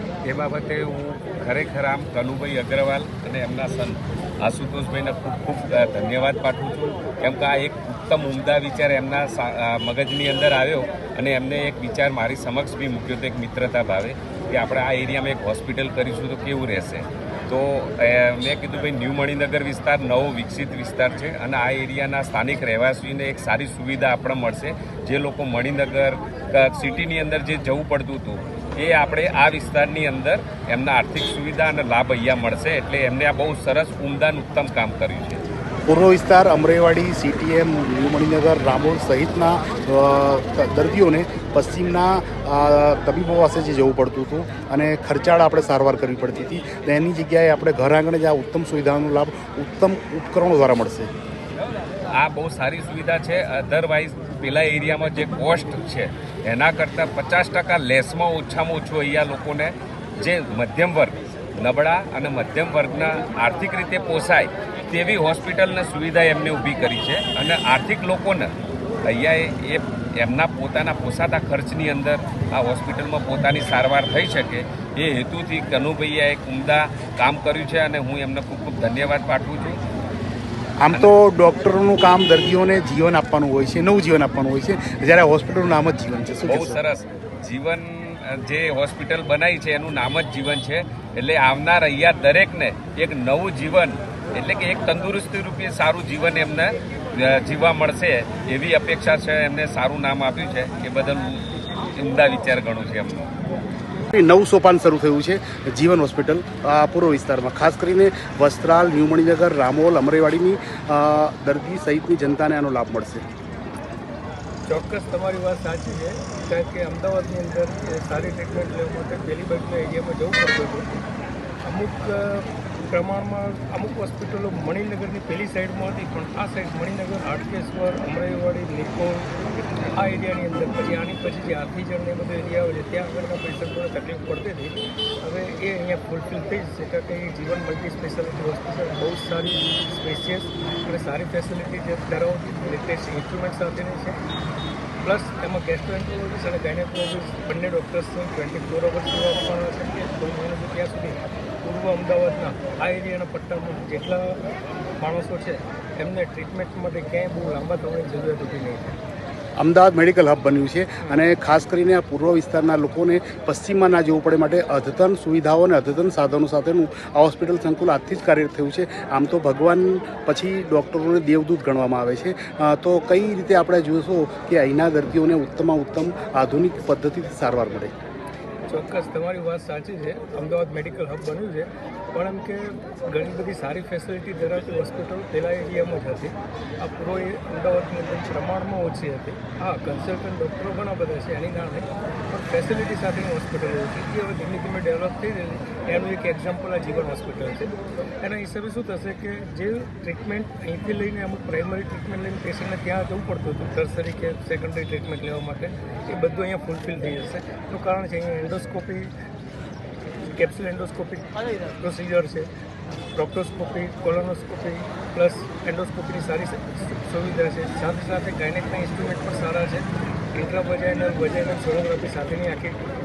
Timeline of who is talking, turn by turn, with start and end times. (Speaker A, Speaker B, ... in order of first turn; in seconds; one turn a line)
Speaker A: 0.3-35.4
Speaker B: 35.9-51.1
Speaker A: 52.1-68.5
Speaker A: 69.1-79.8
Speaker B: 80.8-86.8
Speaker A: 87.4-87.9
Speaker A: 88.4-101.4
Speaker A: 102.0-103.2
Speaker B: 104.1-113.3
Speaker C: 114.7-120.9
Speaker C: 121.7-129.3
Speaker C: 129.9-144.2
Speaker C: 145.0-154.4
Speaker C: 155.0-159.0
Speaker B: 159.6-177.9
Speaker C: 178.7-209.1
Speaker C: 210.2-212.5
Speaker C: 213.2-222.8